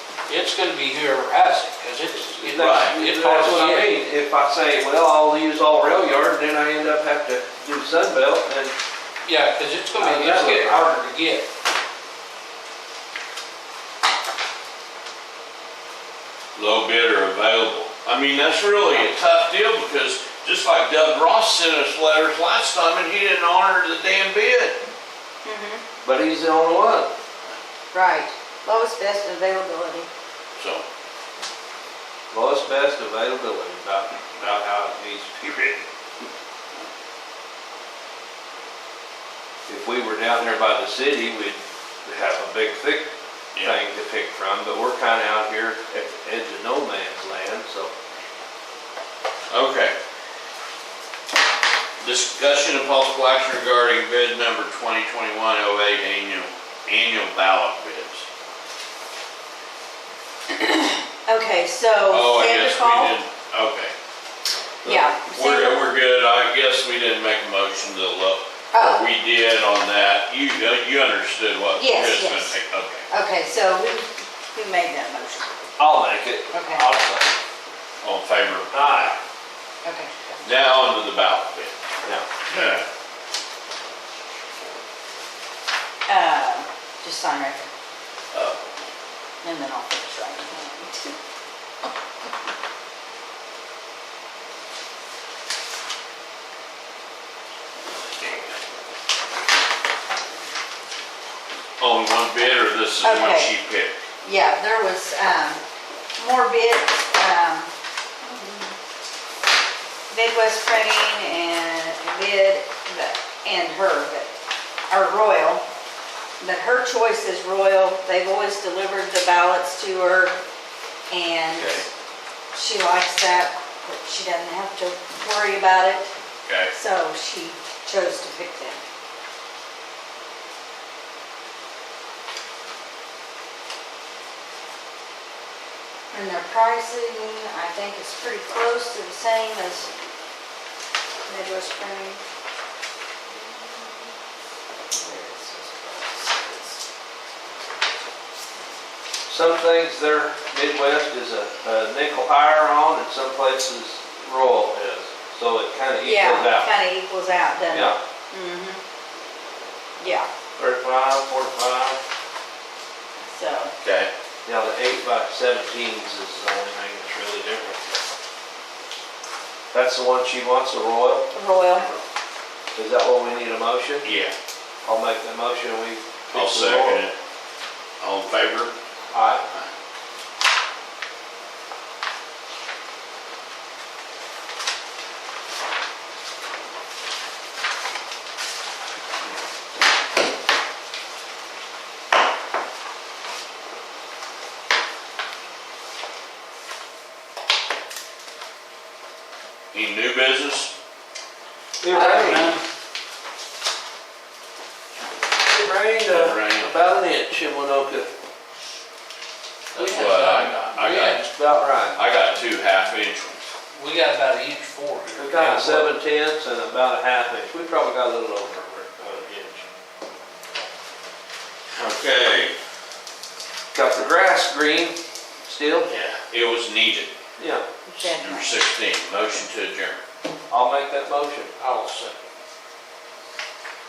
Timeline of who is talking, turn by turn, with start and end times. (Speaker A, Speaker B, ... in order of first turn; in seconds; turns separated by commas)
Speaker A: 0.3-3.9, Speaker B: 2.3-8.7, Speaker C: 2.6-2.9, Speaker A: 9.2-11.4, Speaker B: 10.0-10.8, Speaker C: 16.5-24.8, Speaker D: 25.4-25.8, Speaker B: 26.0-27.1, Speaker D: 27.9-30.1, Speaker C: 30.6-30.8, Speaker B: 32.3-35.9, Speaker B: 39.7-43.1, Speaker B: 43.6-47.9, Speaker C: 49.5-49.9, Speaker C: 52.0-58.2, Speaker D: 60.5-63.2, Speaker C: 62.1-63.9, Speaker B: 64.8-65.1, Speaker D: 64.8-65.9, Speaker C: 65.3-73.1, Speaker D: 68.7-69.1, Speaker D: 71.8-72.5, Speaker D: 73.1-75.5, Speaker B: 75.8-77.2, Speaker D: 76.5-76.9, Speaker C: 78.0-79.1, Speaker B: 78.7-79.1, Speaker D: 79.8-80.3, Speaker C: 80.4-81.7, Speaker B: 82.0-82.3, Speaker C: 82.5-82.8, Speaker D: 86.1-87.6, Speaker C: 88.3-88.6, Speaker D: 89.4-91.1, Speaker C: 98.2-98.5, Speaker C: 101.8-103.9, Speaker D: 103.0-103.5, Speaker D: 104.2-105.6, Speaker D: 106.2-108.7, Speaker D: 110.1-114.3, Speaker D: 114.9-115.6, Speaker D: 116.4-120.4, Speaker D: 121.1-121.8, Speaker C: 121.5-121.8, Speaker D: 122.5-126.1, Speaker C: 126.5-126.7, Speaker D: 126.7-128.8, Speaker D: 136.1-139.9, Speaker D: 141.2-142.2, Speaker D: 144.9-146.8, Speaker B: 149.3-156.7, Speaker D: 156.0-158.8, Speaker B: 157.7-158.0, Speaker D: 160.0-160.3, Speaker B: 160.6-162.0, Speaker D: 163.2-163.7, Speaker C: 163.8-164.1, Speaker B: 164.4-167.8, Speaker B: 169.7-171.2, Speaker D: 171.3-171.9, Speaker B: 172.8-174.0, Speaker C: 174.0-174.3, Speaker B: 174.8-177.0, Speaker C: 176.3-177.1, Speaker C: 178.0-178.7, Speaker B: 179.1-179.4, Speaker C: 199.7-200.7, Speaker B: 201.8-202.6, Speaker A: 201.9-202.6, Speaker B: 205.4-208.1, Speaker C: 206.0-206.8, Speaker C: 209.7-211.3, Speaker A: 209.8-212.3, Speaker B: 211.4-212.0, Speaker C: 211.9-213.5, Speaker A: 213.7-215.9, Speaker B: 215.2-219.7, Speaker C: 221.7-222.5, Speaker B: 223.7-225.9, Speaker C: 225.8-227.1, Speaker B: 227.4-227.7, Speaker D: 227.8-228.6, Speaker C: 228.0-230.0, Speaker B: 230.5-231.5, Speaker A: 231.6-232.2